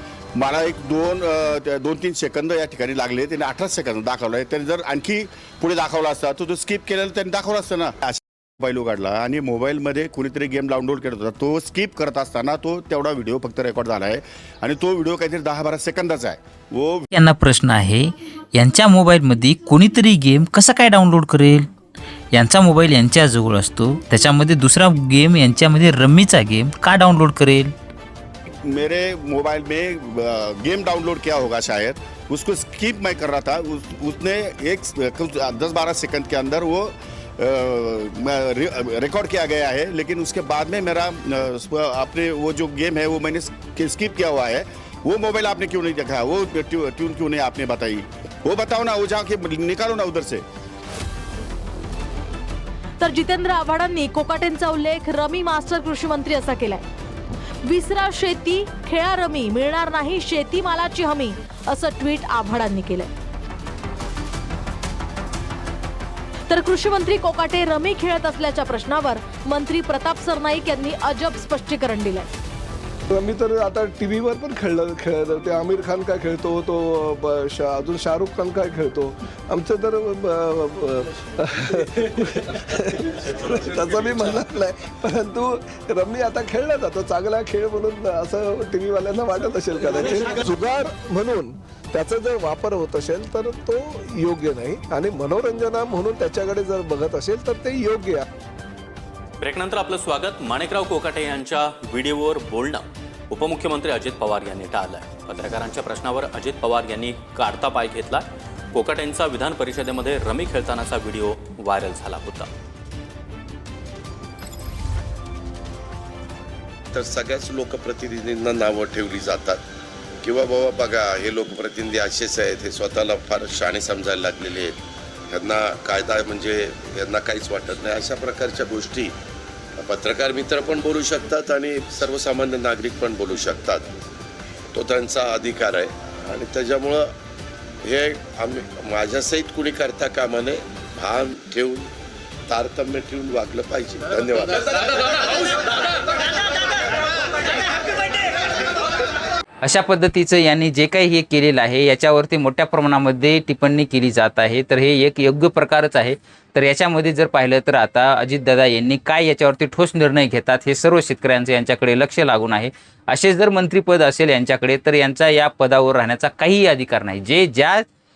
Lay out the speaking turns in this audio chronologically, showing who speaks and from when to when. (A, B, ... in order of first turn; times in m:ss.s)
0:00.4-0:17.1 A
0:17.1-0:21.7 B
0:22.3-0:27.7 B
0:28.7-0:50.4 A
0:53.0-0:56.8 C
0:57.7-1:03.1 C
1:06.5-1:12.3 C
1:13.1-1:38.2 D
1:39.4-1:52.5 E
1:56.9-1:59.6 F
2:00.2-2:04.7 F
2:05.3-2:09.1 F
2:09.8-2:13.9 F
2:14.8-2:17.1 F
2:17.8-2:21.9 F
2:22.5-2:24.7 F
2:29.6-2:47.8 B